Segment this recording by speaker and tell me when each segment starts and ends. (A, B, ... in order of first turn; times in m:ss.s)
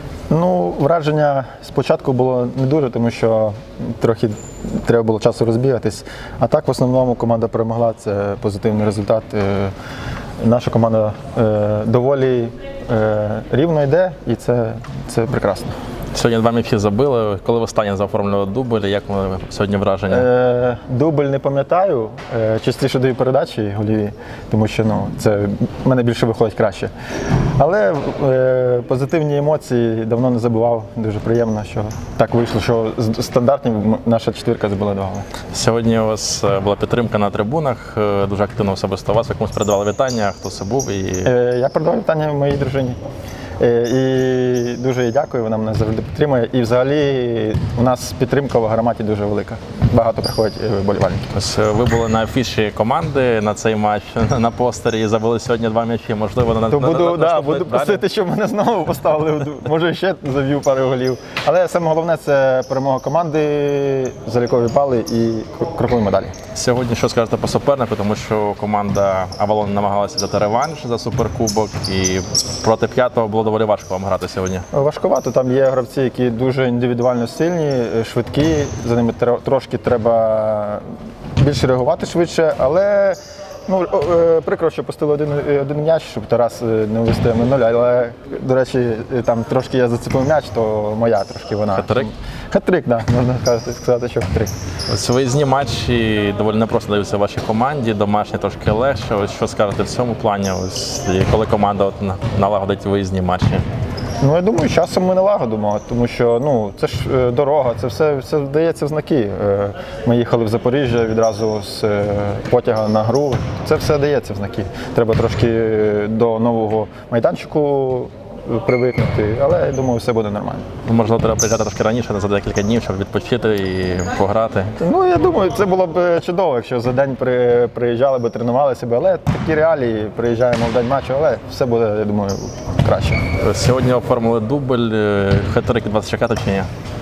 0:00.3-0:09.7 A
0:10.4-0:15.7 A
0:16.1-0:20.3 B
0:20.1-0:26.9 A
0:27.6-0:35.3 A
0:35.5-0:41.3 B
0:41.2-0:43.0 A
0:43.6-0:51.3 A
0:51.3-0:58.0 B
0:56.7-1:06.4 A
1:06.5-1:14.7 B
1:14.7-1:34.5 A
1:31.7-1:32.1 B
1:34.9-1:43.6 B
1:44.2-2:00.7 A
2:00.8-2:04.8 B
2:04.8-2:13.3 A
2:13.4-2:16.7 B